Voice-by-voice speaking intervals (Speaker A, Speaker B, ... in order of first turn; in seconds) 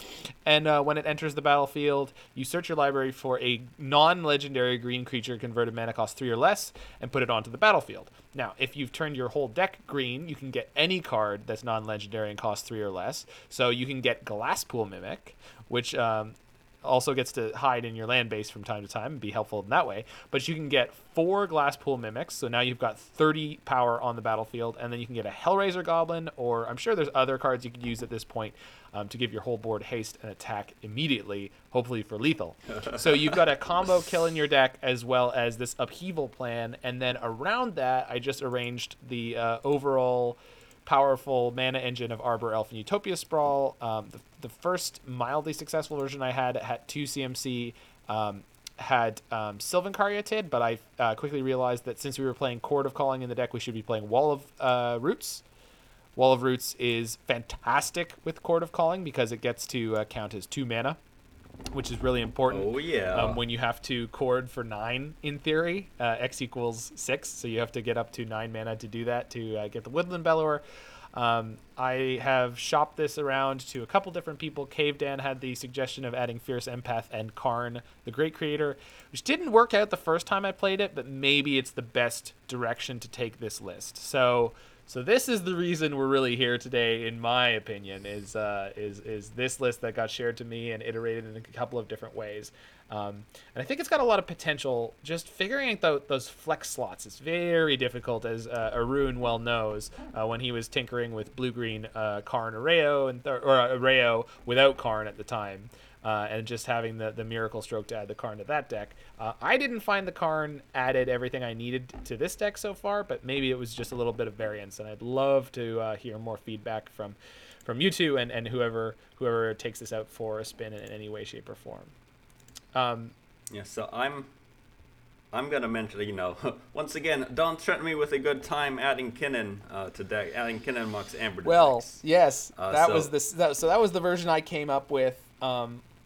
Speaker A: 0.5-55.4, 56.2-61.0, 61.7-70.6, 71.1-121.9, 122.7-123.1, 131.4-135.8
Speaker B: 62.5-63.4, 123.5-124.3, 125.3-132.0, 132.6-133.1